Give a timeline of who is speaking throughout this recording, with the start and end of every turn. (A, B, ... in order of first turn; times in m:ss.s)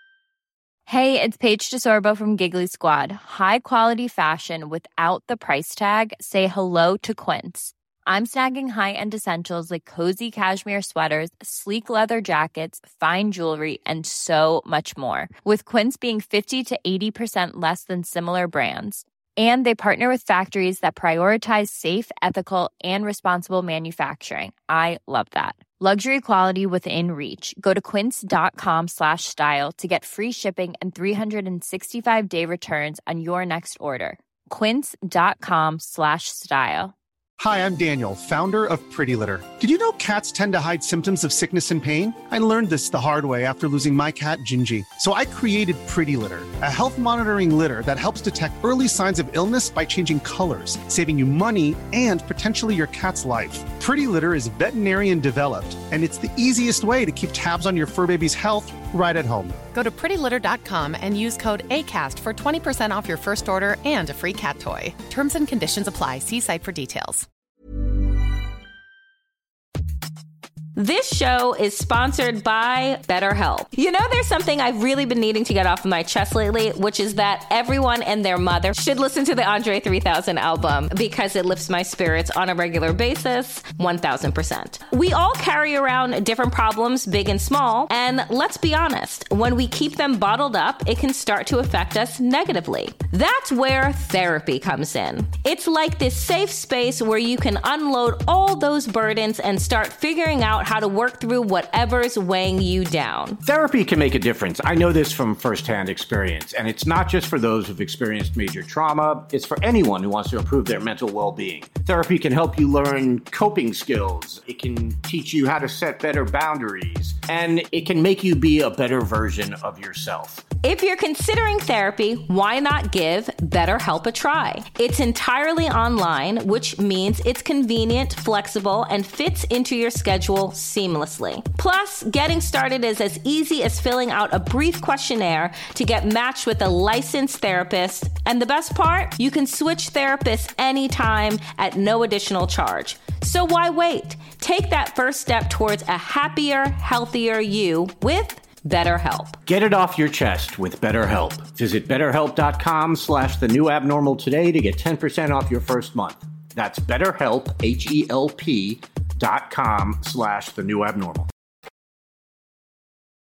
0:00.9-0:36.9 A
0:37.4-0:59.6 B
0:59.7-1:07.2 C
1:10.7-1:43.4 D
1:43.4-2:00.4 E
2:00.6-2:29.4 D
2:29.4-2:41.3 E